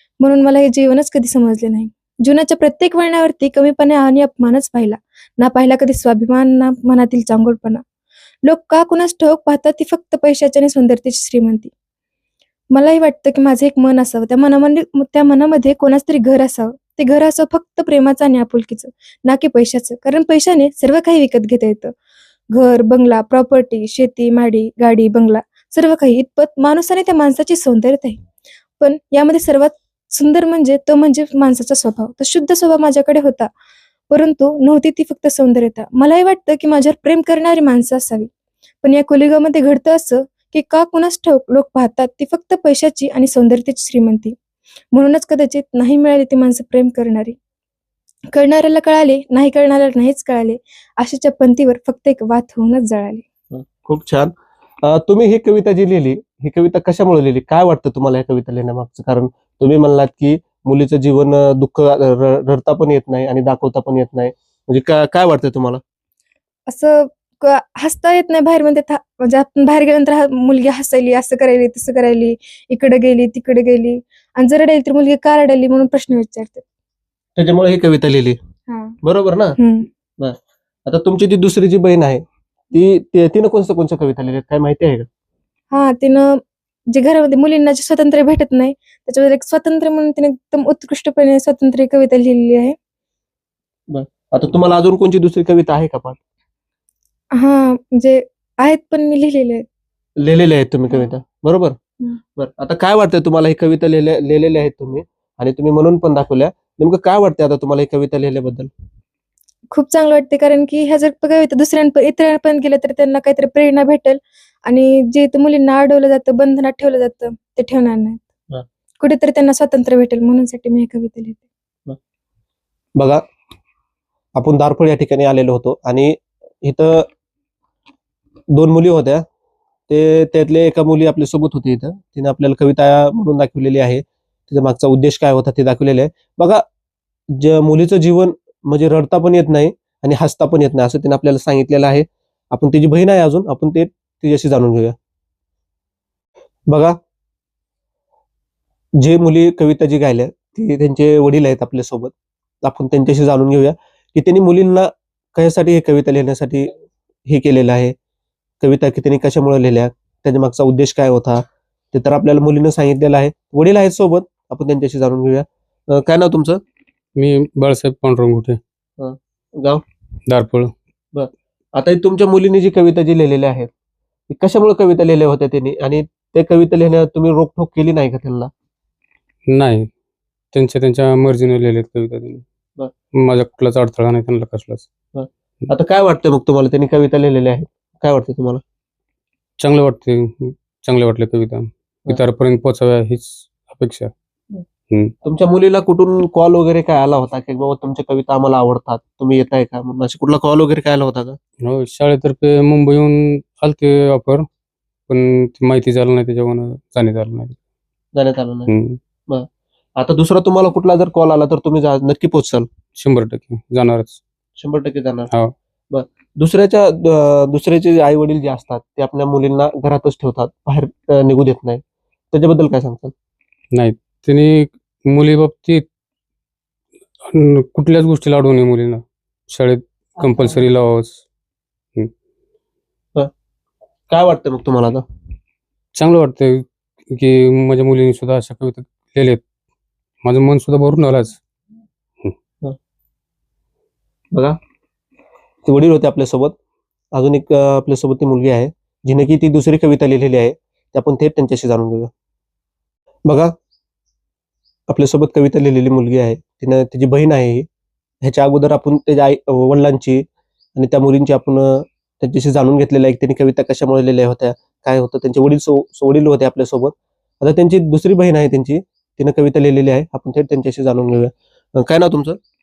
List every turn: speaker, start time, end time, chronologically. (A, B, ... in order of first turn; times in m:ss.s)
0:00.2-0:07.8 A
0:08.4-0:11.7 A
0:12.7-0:21.9 A
0:22.5-0:28.2 A
0:28.8-0:33.5 A
0:34.1-0:38.3 A
0:38.8-0:44.4 A
0:44.9-0:47.4 A
0:48.3-0:53.2 A
0:53.5-1:05.8 B
1:06.7-1:16.6 A
1:17.4-1:18.4 B
1:18.7-1:19.0 A
1:19.0-1:19.6 B
1:19.6-1:19.9 A
1:20.2-1:25.1 B
1:25.7-1:26.4 A
1:26.9-1:32.8 A
1:33.9-1:36.2 B
1:37.3-1:39.6 A
1:40.2-1:41.8 B
1:42.4-1:48.7 B
1:49.7-1:58.3 A
1:59.0-2:01.4 A
2:03.0-2:03.2 B
2:04.4-2:07.1 B
2:08.5-2:09.2 B
2:09.9-2:16.6 B
2:17.3-2:24.9 B
2:26.7-2:27.0 B
2:29.0-2:36.7 B
2:37.2-2:37.9 B
2:38.6-2:46.6 B
2:47.2-2:48.6 C
2:49.0-2:49.8 B
2:50.3-2:50.7 C
2:51.1-2:53.7 B
2:54.3-2:58.5 B
2:59.5-2:59.9 C
3:00.5-3:02.4 C
3:03.2-3:04.9 C
3:05.1-3:08.6 B
3:09.6-3:14.1 C
3:15.2-3:21.4 B
3:21.6-3:24.4 C
3:25.1-3:27.6 C
3:28.1-3:28.7 B
3:28.7-3:29.0 C
3:29.3-3:32.7 B
3:32.9-3:34.2 C
3:34.6-3:35.3 B
3:35.9-3:43.1 B
3:43.7-3:45.8 C
3:47.3-3:51.2 C
3:54.1-3:55.0 B
3:56.0-3:59.4 C
4:00.2-4:01.4 C
4:04.3-4:04.6 B
4:05.6-4:06.5 B
4:07.1-4:12.1 B
4:13.2-4:13.5 B
4:14.9-4:17.6 B
4:18.2-4:20.2 B
4:20.8-4:32.4 B